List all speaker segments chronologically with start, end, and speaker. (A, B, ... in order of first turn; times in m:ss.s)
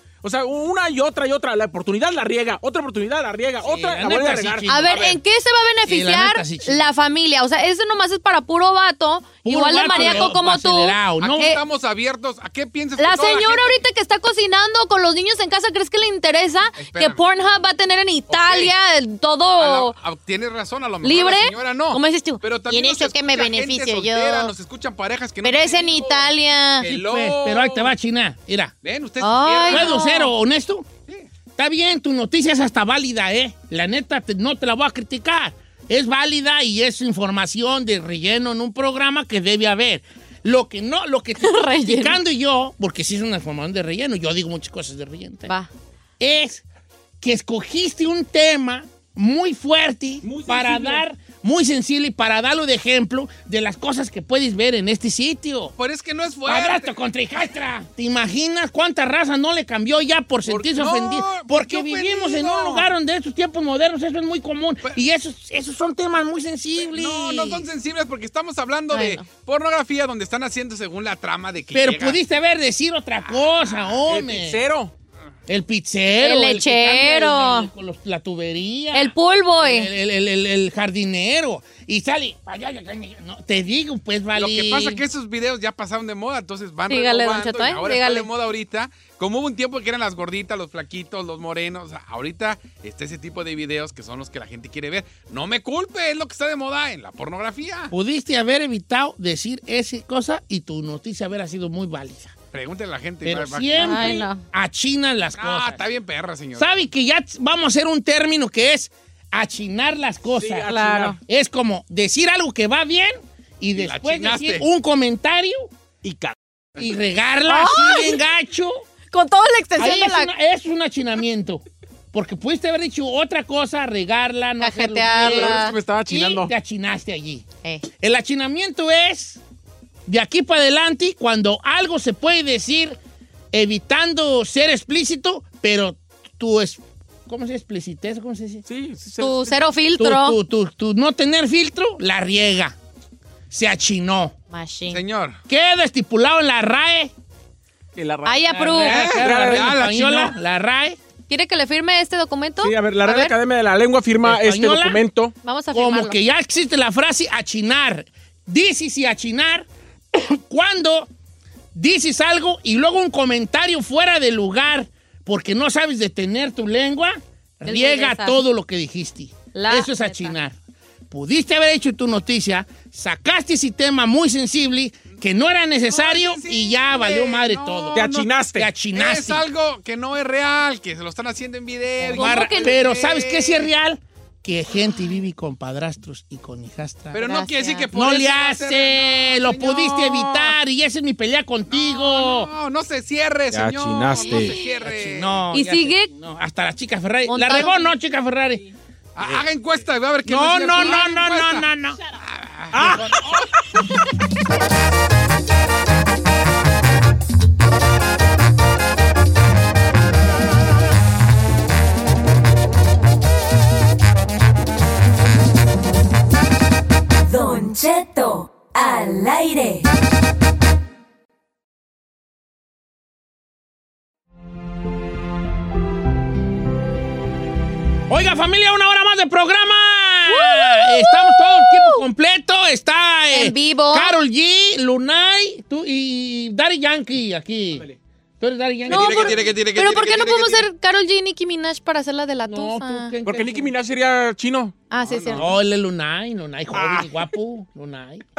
0:00.2-0:04.7 A
0:03.6-0:05.1 B
0:04.7-0:11.6 C
0:04.9-0:05.2 D
0:05.9-0:06.8 B
0:09.4-0:11.5 B
0:09.9-0:10.4 D
0:11.2-0:13.8 D
0:13.0-0:20.0 C
0:16.8-0:17.2 D
0:18.3-0:18.7 D
0:19.6-0:27.9 D
0:21.0-0:24.5 C
0:25.4-0:26.9 C
0:26.8-0:28.8 B
0:28.8-0:30.0 D
0:29.2-0:30.3 C
0:29.7-0:30.9 B
0:31.6-0:45.5 B
0:41.4-0:42.2 C
0:46.2-0:46.6 B
0:47.2-0:55.7 B
0:50.2-0:51.0 A
0:55.8-0:56.9 D
0:56.5-1:07.7 B
1:00.5-1:02.9 D
1:06.8-1:12.2 D
1:08.9-1:09.2 C
1:11.7-1:14.6 B
1:14.1-1:14.9 A
1:15.5-1:25.0 B
1:16.2-1:17.7 C
1:18.9-1:19.9 C
1:24.4-1:37.9 D
1:26.9-1:28.3 C
1:37.9-1:42.4 B
1:42.5-1:44.3 D
1:43.2-1:45.9 B
1:43.8-1:44.4 C
1:45.4-1:46.7 D
1:46.6-1:55.7 B
1:50.4-1:51.2 A
1:50.7-1:51.2 C
1:53.8-1:54.7 D
1:56.0-1:56.4 A
1:56.8-1:58.8 B
1:57.5-1:58.2 C
1:59.1-2:00.3 C
1:59.8-2:07.4 B
2:04.6-2:05.8 C
2:05.2-2:06.5 A
2:08.0-2:09.4 B
2:10.1-2:13.0 B
2:13.5-2:18.6 B
2:18.7-2:19.6 A
2:19.2-2:20.4 C
2:20.0-2:22.8 B
2:23.5-2:24.4 B
2:24.5-2:25.0 C
2:24.9-2:25.4 D
2:25.5-2:27.1 B
2:28.0-2:29.8 A
2:28.2-2:29.1 C
2:28.5-2:31.0 B
2:28.8-2:30.3 D
2:31.3-2:33.4 C
2:32.6-2:35.3 A
2:34.2-2:35.0 B
2:35.4-2:36.2 C
2:35.7-2:41.1 B
2:41.7-2:50.6 B
2:47.6-2:48.4 C
2:49.5-2:50.4 C
2:51.1-2:59.4 B
2:55.8-2:58.3 D
2:57.9-2:58.7 A
2:58.9-3:03.7 D
3:02.0-3:02.8 C
3:02.1-3:07.2 B
3:07.1-3:10.6 D
3:07.2-3:07.9 C
3:07.9-3:12.5 B
3:11.7-3:15.4 D
3:13.5-3:14.5 A
3:14.8-3:18.6 B
3:15.5-3:16.1 C
3:17.3-3:17.9 C
3:19.2-3:21.7 D
3:20.2-3:22.0 B
3:22.2-3:23.4 D
3:22.7-3:23.2 A
3:22.8-3:23.2 B
3:37.2-3:39.9 E
3:48.1-3:57.9 B
3:50.3-3:52.0 C
3:53.3-3:54.2 C
3:58.4-3:59.5 B
3:58.9-4:00.7 D
3:58.9-4:03.1 C
4:02.5-4:03.7 B
4:03.2-4:04.8 A
4:04.9-4:05.5 C
4:05.1-4:05.4 D
4:05.4-4:08.2 B
4:06.7-4:07.1 A